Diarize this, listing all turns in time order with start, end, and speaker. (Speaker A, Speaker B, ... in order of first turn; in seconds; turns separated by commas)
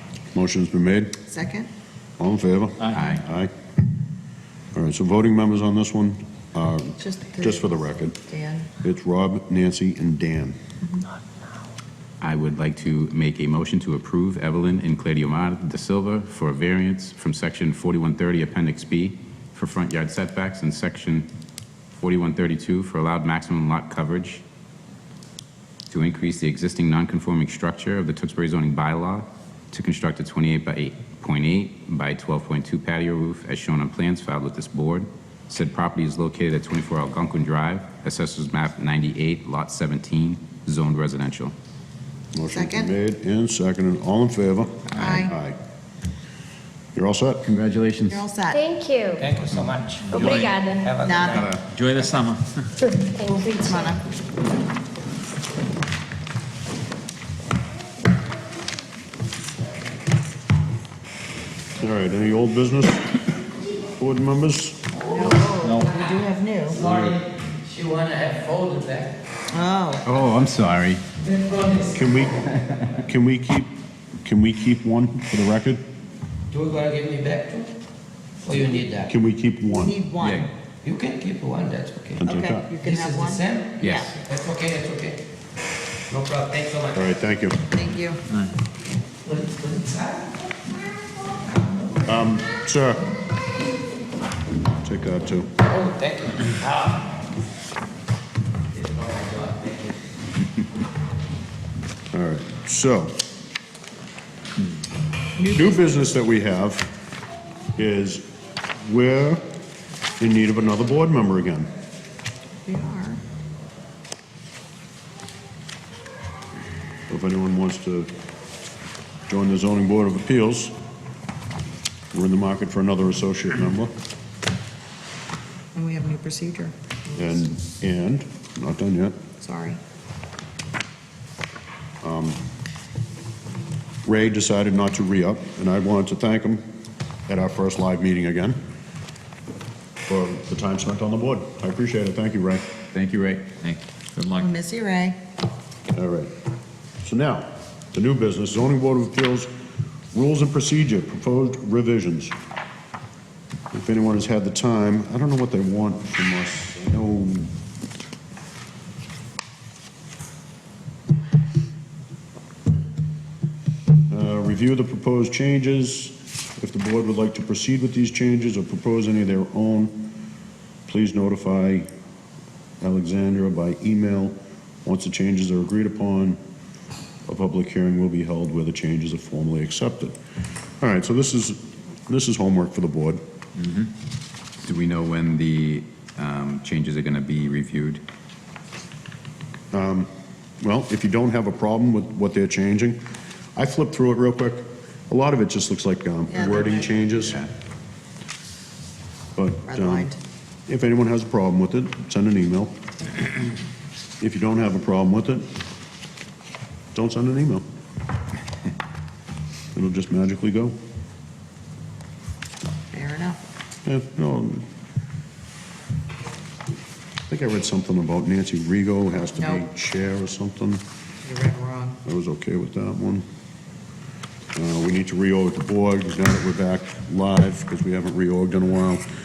Speaker A: 0.3-1.1, Speaker B: 1.3-1.7, Speaker A: 2.2-3.5, Speaker C: 2.9-3.2, Speaker A: 4.7-8.2, Speaker B: 7.0-8.7, Speaker A: 8.8-10.6, Speaker C: 12.2-21.3, Speaker C: 22.0-24.4, Speaker C: 25.9-41.5, Speaker A: 42.3-45.6, Speaker B: 42.5-42.9, Speaker B: 44.9-45.4, Speaker A: 47.0-47.5, Speaker C: 47.5-48.3, Speaker B: 48.1-48.6, Speaker D: 48.5-49.2, Speaker E: 49.2-51.6, Speaker D: 50.1-51.0, Speaker B: 51.0-51.5, Speaker F: 51.5-52.7, Speaker D: 52.8-54.0, Speaker B: 53.3-54.0, Speaker A: 61.8-63.1, Speaker A: 64.0-64.9, Speaker B: 65.0-66.8, Speaker E: 66.7-69.1, Speaker A: 66.8-67.2, Speaker B: 69.5-70.0, Speaker C: 70.0-71.0, Speaker E: 71.3-71.9, Speaker A: 71.9-75.8, Speaker E: 76.5-77.7, Speaker E: 78.4-79.1, Speaker A: 79.0-80.0, Speaker B: 79.7-80.5, Speaker C: 80.2-80.5, Speaker E: 80.8-82.3, Speaker A: 82.2-82.7, Speaker B: 82.2-84.1, Speaker E: 82.8-85.2, Speaker C: 83.8-84.2, Speaker E: 86.1-87.1, Speaker A: 86.9-87.6, Speaker B: 87.7-88.2, Speaker E: 89.2-90.4, Speaker A: 92.0-93.1, Speaker A: 94.8-95.5, Speaker E: 95.7-97.1, Speaker E: 98.7-100.0, Speaker A: 102.1-103.2, Speaker B: 105.4-106.0, Speaker A: 105.5-106.9, Speaker A: 107.8-108.2, Speaker A: 108.8-109.4, Speaker A: 110.2-111.7, Speaker B: 112.7-113.2, Speaker A: 117.1-118.1, Speaker A: 119.3-120.7, Speaker A: 122.1-123.9, Speaker B: 125.8-127.2, Speaker A: 127.1-129.2, Speaker B: 129.4-129.8, Speaker A: 132.0-132.4, Speaker A: 134.1-136.6, Speaker A: 137.3-138.6, Speaker A: 140.1-142.6, Speaker C: 142.9-143.5, Speaker F: 143.6-144.5, Speaker B: 144.4-145.2, Speaker A: 145.9-146.3, Speaker A: 147.0-149.5, Speaker A: 150.1-152.3, Speaker A: 153.7-157.5, Speaker A: 164.1-170.1, Speaker A: 170.9-171.9, Speaker A: 172.8-176.4, Speaker A: 177.3-180.2, Speaker A: 180.8-183.2, Speaker C: 184.6-188.0, Speaker A: 189.7-190.1, Speaker A: 190.6-193.0, Speaker A: 193.6-197.4, Speaker B: 196.3-197.0, Speaker A: 199.4-200.1, Speaker B: 199.7-200.2, Speaker A: 200.7-202.8, Speaker A: 204.2-205.5, Speaker A: 206.9-207.6, Speaker A: 209.7-210.8, Speaker B: 212.9-213.5, Speaker A: 213.8-214.7, Speaker A: 217.3-220.8, Speaker B: 219.4-219.6, Speaker B: 221.2-222.0, Speaker A: 222.1-223.2, Speaker A: 224.6-229.1